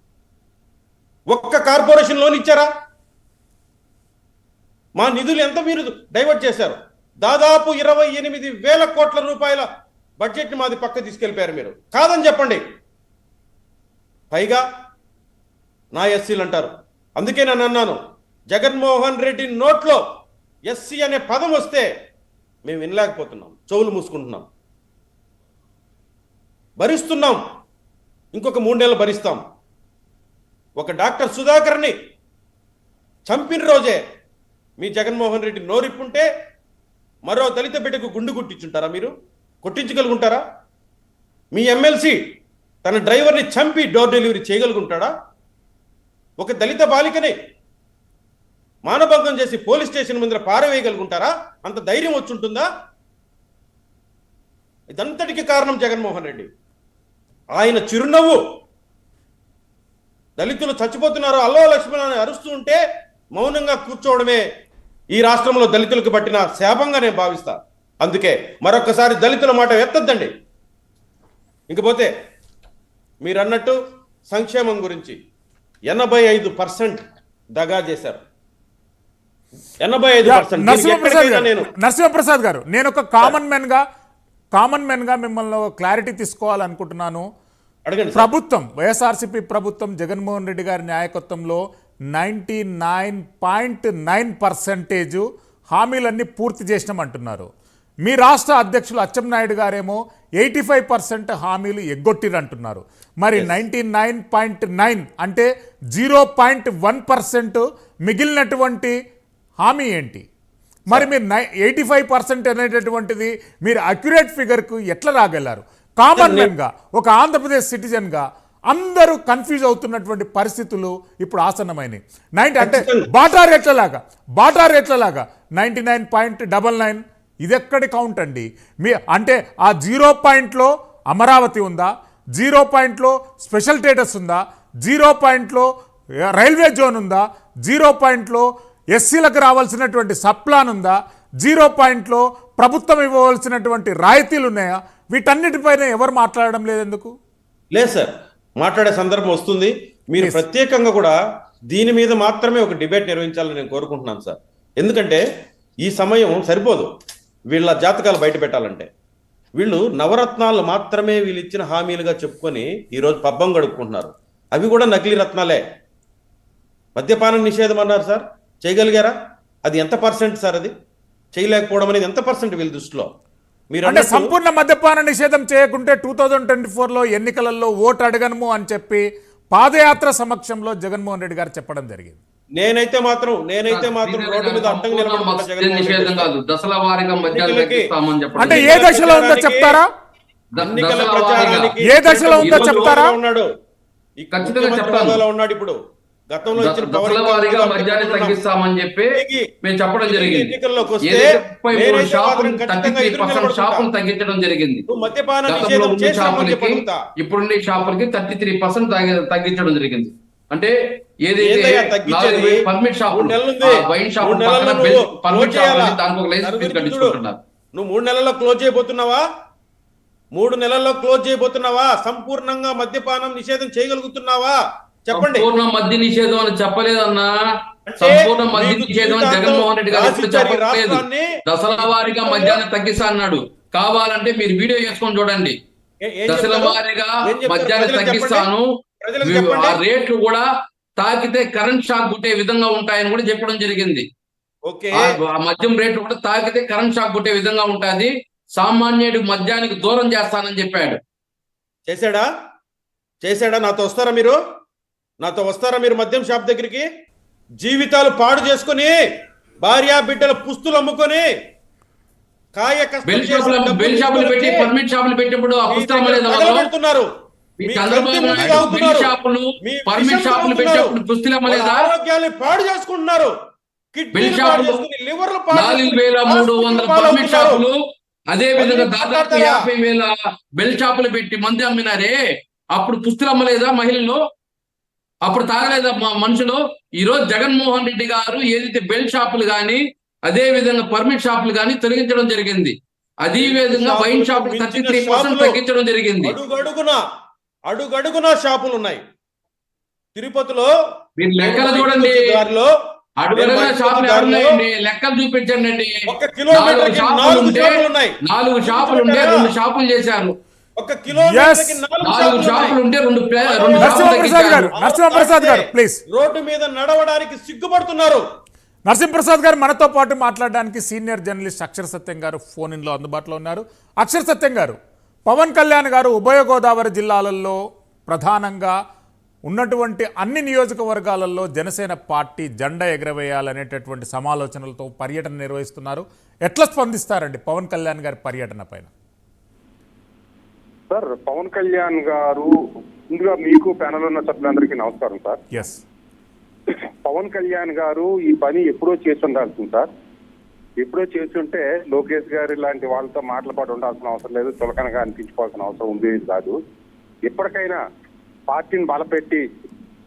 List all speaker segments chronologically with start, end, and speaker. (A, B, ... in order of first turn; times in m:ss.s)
0:01.3-0:02.7 A
0:05.0-0:09.7 A
0:10.2-0:12.6 A
0:14.3-0:14.6 A
0:15.9-0:18.0 A
0:18.5-0:20.0 A
0:20.7-0:21.9 A
0:22.6-0:24.4 A
0:26.8-0:27.4 A
0:28.3-0:29.4 A
0:30.8-0:31.9 A
0:33.3-0:34.0 A
0:34.8-0:36.3 A
0:37.3-0:39.1 A
0:39.6-0:40.4 A
0:41.5-0:42.2 A
0:42.8-0:45.1 A
0:46.4-0:47.4 A
0:48.8-0:52.7 A
0:54.9-0:56.5 A
0:57.5-0:58.4 A
1:00.4-1:02.8 A
1:03.3-1:04.4 A
1:05.1-1:10.3 A
1:11.7-1:12.1 A
1:13.2-1:13.8 A
1:14.3-1:15.2 A
1:15.9-1:17.0 A
1:17.6-1:18.2 A
1:19.8-1:21.7 A
1:20.2-1:23.8 B
1:24.5-1:27.2 B
1:27.8-1:28.3 A
1:28.1-1:31.6 B
1:32.1-1:37.5 B
1:38.0-1:49.0 B
1:49.6-1:50.2 B
1:50.9-2:15.7 B
1:56.2-1:56.5 A
2:02.6-2:03.1 A
2:16.3-2:27.1 B
2:27.7-2:31.2 A
2:30.2-2:30.4 B
2:31.7-2:35.2 A
2:35.8-2:36.9 A
2:37.5-2:38.9 A
2:39.6-2:45.6 A
2:47.0-2:50.7 A
2:51.3-2:53.1 A
2:53.7-2:54.3 A
2:53.8-3:02.2 B
3:02.6-3:06.3 A
3:03.7-3:08.7 C
3:07.3-3:07.9 A
3:08.4-3:09.9 B
3:08.4-3:09.8 A
3:10.6-3:11.7 C
3:10.6-3:13.5 A
3:11.8-3:13.2 B
3:12.4-3:13.0 C
3:14.2-3:15.8 A
3:14.3-3:15.2 C
3:16.3-3:18.4 A
3:16.6-3:19.1 C
3:19.1-3:19.5 A
3:19.6-3:20.5 C
3:20.0-3:23.9 A
3:21.0-3:24.8 C
3:24.9-3:27.0 A
3:25.5-3:30.7 C
3:31.2-3:37.4 C
3:31.4-3:37.2 A
3:37.7-3:39.2 A
3:40.3-3:45.5 A
3:45.1-3:47.3 C
3:47.9-3:51.3 A
3:48.0-3:55.6 C
3:51.8-3:52.6 A
3:56.0-3:58.5 A
3:56.3-3:58.6 C
3:59.0-3:59.8 A
3:59.2-4:00.5 C
4:01.0-4:04.0 C
4:04.7-4:05.0 A
4:05.0-4:11.0 C
4:11.9-4:12.3 A
4:13.2-4:14.4 A
4:15.2-4:16.9 A
4:17.6-4:19.0 A
4:19.6-4:21.3 A
4:22.6-4:24.7 A
4:23.0-4:26.7 C
4:25.7-4:27.1 A
4:27.6-4:31.8 C
4:27.6-4:31.0 A
4:28.4-4:28.6 B
4:31.5-4:33.3 A
4:33.9-4:37.6 A
4:34.1-4:34.8 C
4:35.5-4:37.8 C
4:38.3-4:42.2 C
4:38.6-4:39.6 A
4:42.7-4:44.2 C
4:45.2-4:56.3 C
4:53.4-4:55.6 A
4:56.2-4:57.0 A
4:57.7-4:59.0 A
5:00.1-5:00.7 A
5:01.2-5:02.2 C
5:01.4-5:02.7 A
5:03.2-5:06.0 C
5:03.3-5:04.6 A
5:06.1-5:09.5 A
5:06.5-5:10.4 C
5:10.8-5:12.8 A
5:11.1-5:11.8 B
5:12.0-5:14.7 C
5:13.4-5:18.2 A
5:13.8-5:16.0 B
5:18.9-5:24.8 B
5:25.3-5:28.7 B
5:29.5-5:38.9 B
5:40.9-5:42.5 D
5:43.1-5:45.4 D
5:45.5-5:45.8 B
5:46.7-5:49.9 D
5:50.8-5:56.6 D
5:57.2-5:57.8 D
5:58.5-5:59.4 D